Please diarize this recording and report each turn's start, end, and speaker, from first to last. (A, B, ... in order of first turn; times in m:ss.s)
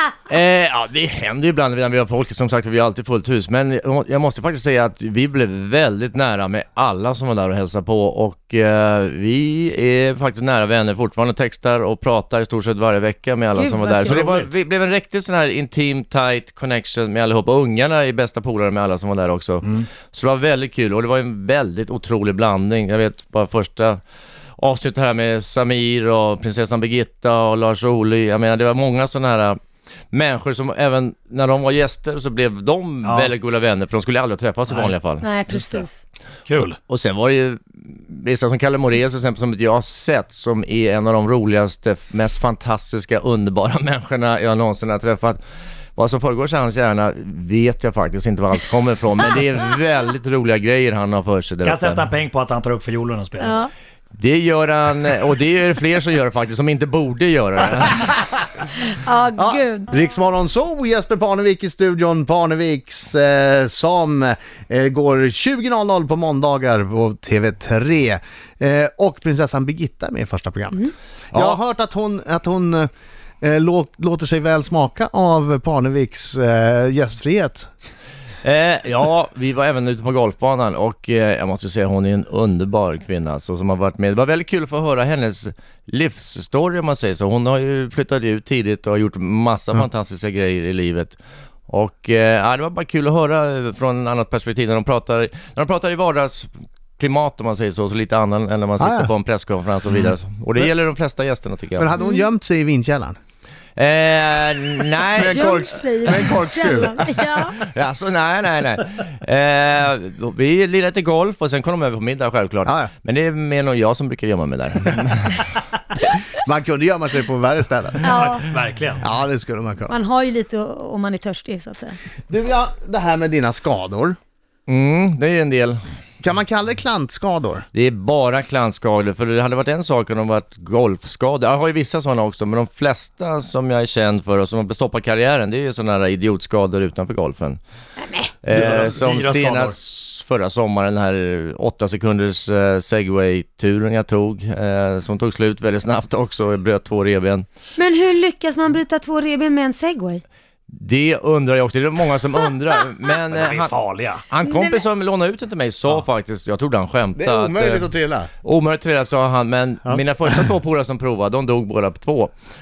0:00.3-0:24.0 A
0:13.6-0:14.2 B
0:14.1-0:14.5 C
0:19.6-0:19.9 C
0:24.6-0:29.6 A
0:30.1-0:35.3 A
0:33.0-0:33.3 C
0:34.7-0:35.0 C
0:35.2-0:36.0 B
0:35.5-0:35.9 C
0:36.5-0:36.8 C
0:36.8-0:45.4 A
0:46.0-0:52.0 A
0:51.6-0:53.6 C
0:53.4-0:53.7 B
0:54.2-0:58.2 A
0:58.8-0:59.9 B
0:59.4-1:12.9 D
1:11.3-1:11.6 A
1:13.4-1:17.7 D
1:18.4-1:31.2 A
1:31.7-1:41.9 A
1:38.8-1:39.1 D
1:41.8-1:43.2 D
1:42.0-1:42.3 B
1:43.8-1:45.6 A
1:45.2-1:47.0 D
1:45.2-1:47.7 B
1:47.6-1:55.6 A
1:52.7-1:52.9 D
1:56.4-1:58.3 D
1:58.0-1:58.5 B
1:58.3-1:59.0 C
1:59.0-1:59.9 D
1:59.9-2:02.0 B
2:02.3-2:04.2 D
2:04.7-2:05.8 A
2:06.2-2:07.6 D
2:07.7-2:17.6 A
2:18.0-2:18.4 B
2:18.4-2:27.5 A
2:18.5-2:19.8 C
2:27.8-2:30.2 B
2:30.7-2:33.7 A
2:33.3-2:34.3 C
2:34.3-2:37.9 A
2:34.4-2:34.8 B
2:37.2-2:38.3 D
2:38.4-2:42.3 A